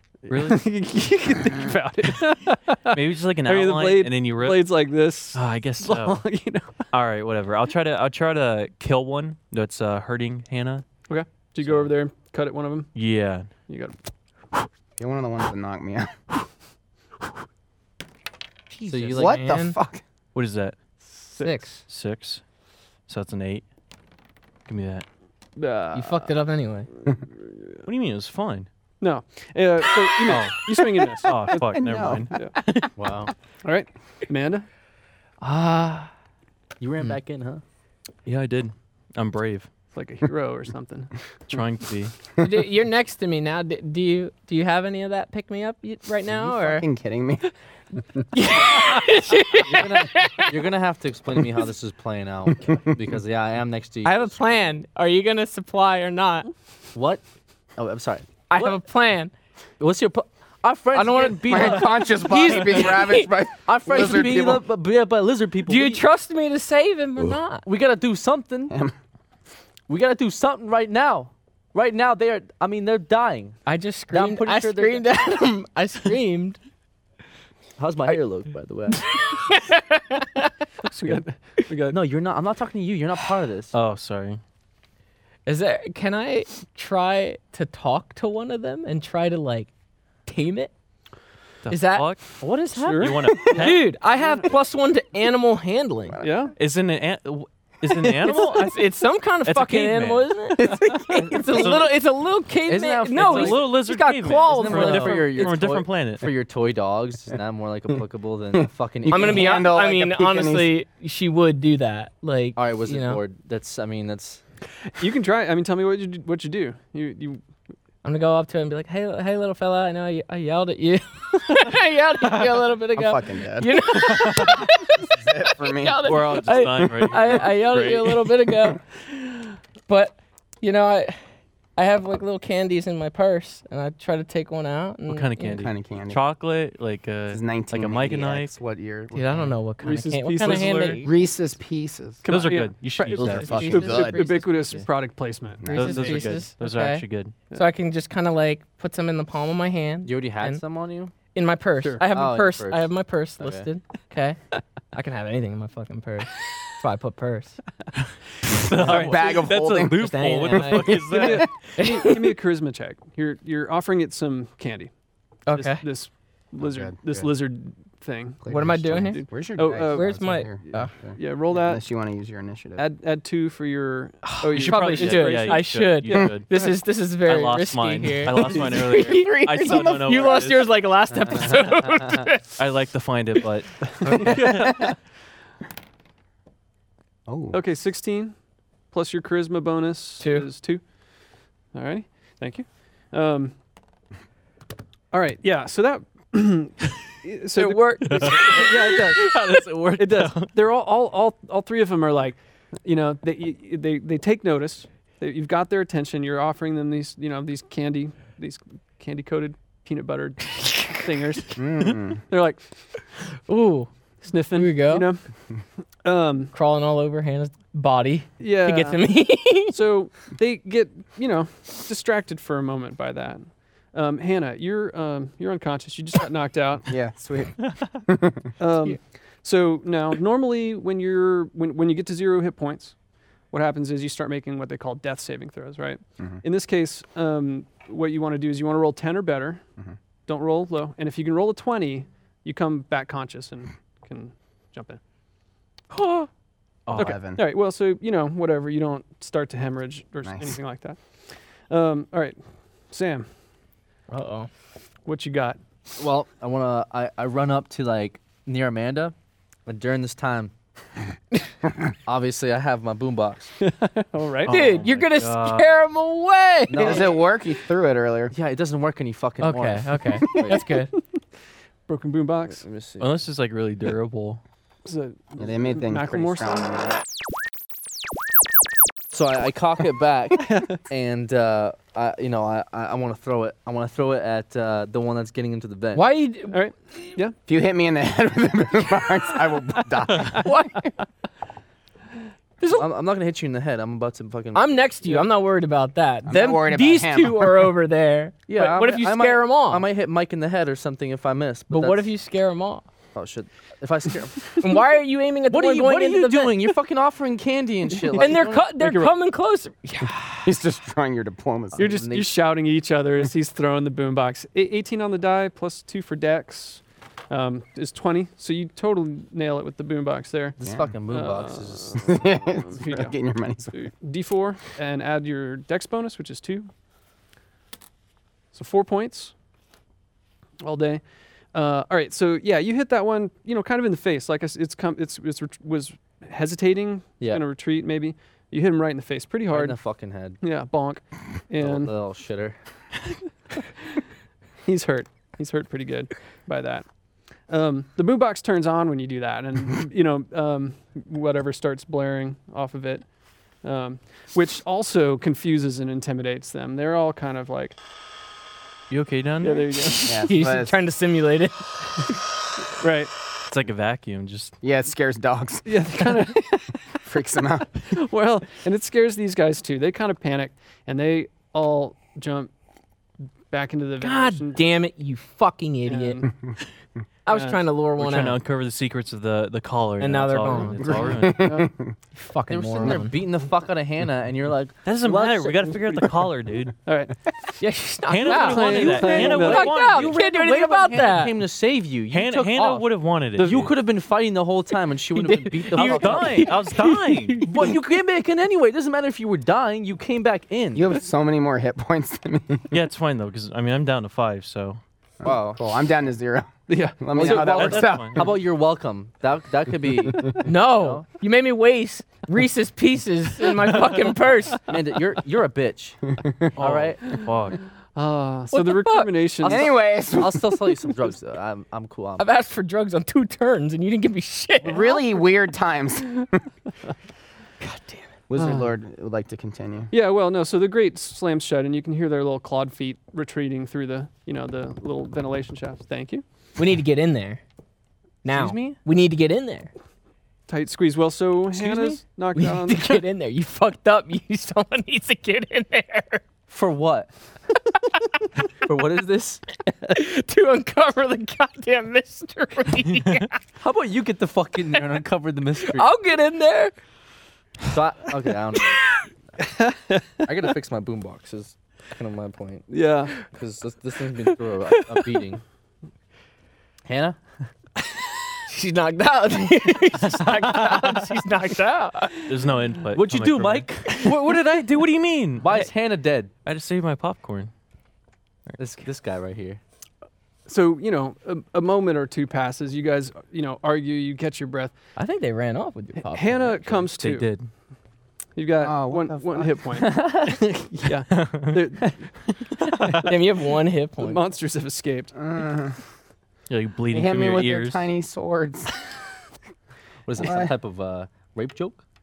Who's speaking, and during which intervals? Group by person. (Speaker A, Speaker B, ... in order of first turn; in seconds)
Speaker A: 0.2-6.8, 11.1-12.9, 13.6-13.9, 21.2-21.6, 25.6-26.3, 27.1-27.8, 29.0-32.5, 33.6-34.6, 39.9-41.6, 80.8-82.0, 92.7-93.8, 96.2-96.5, 115.0-117.4, 139.8-141.1, 142.2-146.2, 161.1-164.9, 165.5-168.4, 169.0-171.8, 172.8-176.8, 184.0-184.9, 187.5-188.3, 188.9-190.8, 191.7-193.5, 195.1-199.4, 200.0-211.6, 212.3-212.7, 214.2-215.2, 216.0-216.5, 218.4-219.0, 219.6-226.9, 228.6-232.9, 233.5-239.6, 240.2-245.0, 246.9-253.3, 255.0-255.6, 263.6-264.6, 271.9-272.6, 274.8-276.8, 280.4-280.8, 286.5-287.4, 308.1-308.3, 311.8-323.1, 323.7-326.7, 328.5-329.3, 330.6-339.8, 340.4-341.9, 344.6-346.9, 347.4-353.1, 353.6-357.8, 359.4-360.2, 362.8-363.1, 365.6-366.8, 367.8-372.5, 373.5-374.6, 375.9-376.3, 377.3-377.6, 381.4-381.7, 386.9-387.1, 388.2-389.7, 406.7-407.5, 417.9-419.7, 428.4-428.7, 429.9-436.2, 440.5-443.0, 459.4-460.2, 462.7-463.2, 480.4-484.7, 486.0-487.3, 488.3-490.1, 490.7-492.1, 492.8-493.2, 494.0-495.1
Speaker B: 0.3-0.7, 2.9-4.7, 5.3-6.2, 6.9-10.8, 12.9-13.5, 20.3-20.8, 21.8-22.4, 23.1-23.6, 24.6-25.1, 27.9-28.7, 30.2-32.9, 38.2-39.7, 41.5-42.1, 80.9-81.2, 83.7-84.4, 91.6-93.9, 96.6-98.8, 99.4-100.3, 101.5-101.9, 103.2-106.3, 124.2-124.5, 126.0-128.5, 135.1-138.5, 140.4-141.0, 142.3-143.9, 145.7-147.3, 158.5-161.5, 174.5-176.5, 177.1-181.6, 182.6-184.9, 198.0-200.5, 246.8-247.2, 264.5-265.7, 273.0-274.4, 358.9-359.8, 363.5-364.6, 378.0-381.5, 384.8-386.8, 388.1-390.2, 392.1-393.7, 395.7-397.5, 402.7-404.8, 407.2-408.2, 416.6-417.6, 470.1-471.0, 472.2-475.7, 476.4-477.5, 487.0-487.5, 491.1-491.6, 492.6-493.1, 496.5-497.9
Speaker C: 15.0-16.1, 19.1-20.0, 31.5-32.6, 46.3-48.2, 61.1-64.6, 96.1-96.5, 100.6-101.7, 109.0-110.7, 123.0-124.4, 125.1-127.3, 135.6-136.2, 137.3-139.6, 141.0-142.3, 143.2-144.2, 145.6-146.3, 158.8-161.4, 166.6-167.3, 168.4-172.8, 179.0-180.4, 187.3-187.6, 211.6-212.2, 226.9-228.5, 246.9-247.4, 250.2-250.6, 266.7-268.3, 275.4-276.9, 287.5-290.6, 296.3-297.7, 310.4-312.0, 320.6-321.0, 322.0-323.8, 360.1-360.8, 364.6-365.9, 367.0-367.8, 380.8-381.9, 400.7-402.7, 405.2-408.4, 419.4-420.9, 424.6-426.3, 428.3-429.9, 488.6-489.6, 495.1-495.8, 496.9-498.8, 500.2-500.5
Speaker D: 18.7-19.8, 21.4-21.8, 25.9-26.9, 35.4-36.1, 42.4-46.9, 48.3-50.5, 54.0-56.5, 58.5-59.3, 60.9-63.3, 65.7-67.7, 73.7-76.6, 78.9-80.5, 85.5-89.7, 90.2-90.7, 91.7-96.2, 98.2-105.5, 109.1-113.2, 118.0-125.0, 125.6-129.1, 129.9-131.2, 131.8-135.6, 139.1-141.1, 143.1-144.8, 145.6-150.6, 151.3-154.4, 154.9-157.6, 158.7-161.1, 161.8-162.3, 165.4-165.8, 168.5-170.9, 174.2-182.4, 190.2-190.5, 197.5-198.6, 213.4-213.9, 214.5-215.1, 216.5-219.8, 254.1-254.5, 264.5-267.0, 269.4-270.9, 285.9-287.1, 290.4-290.7, 294.5-299.8, 301.7-302.8, 304.6-306.6, 308.1-310.5, 359.8-362.2, 374.0-376.2, 377.2-378.4, 380.0-381.2, 382.1-383.2, 387.6-391.3, 395.1-397.7, 410.4-414.6, 418.5-419.2, 422.2-425.0, 427.6-428.1, 436.6-437.4, 438.2-439.7, 441.6-446.2, 449.9-453.3, 455.7-456.7, 468.5-472.3, 484.9-486.9, 493.0-494.2
Speaker E: 18.9-19.4, 33.0-33.3, 36.8-37.6, 49.6-54.4, 56.9-57.2, 57.8-58.8, 59.8-62.1, 63.6-66.0, 67.6-68.7, 69.9-73.6, 74.1-75.1, 77.8-79.0, 81.9-83.7, 102.7-103.7, 104.4-109.7, 112.5-114.4, 150.0-151.1, 152.1-153.7, 198.4-199.8, 256.0-259.1, 259.6-260.5, 262.1-263.5, 264.5-265.0, 266.7-267.2, 268.3-270.6, 272.6-273.1, 279.1-286.1, 292.7-295.2, 298.5-302.1, 303.1-304.6, 305.5-309.1, 311.7-312.4, 320.6-322.2, 339.5-340.4, 341.6-342.6, 382.5-385.7, 388.6-396.6, 397.4-400.9, 405.2-405.6, 407.1-411.0, 414.7-416.0, 416.6-417.0, 419.4-422.2, 438.2-438.8, 446.5-447.1, 448.6-449.4, 453.6-455.9, 457.7-458.8, 460.2-465.4, 466.9-467.2, 472.9-474.3, 475.4-476.3, 478.6-479.6, 489.8-490.7, 500.1-501.8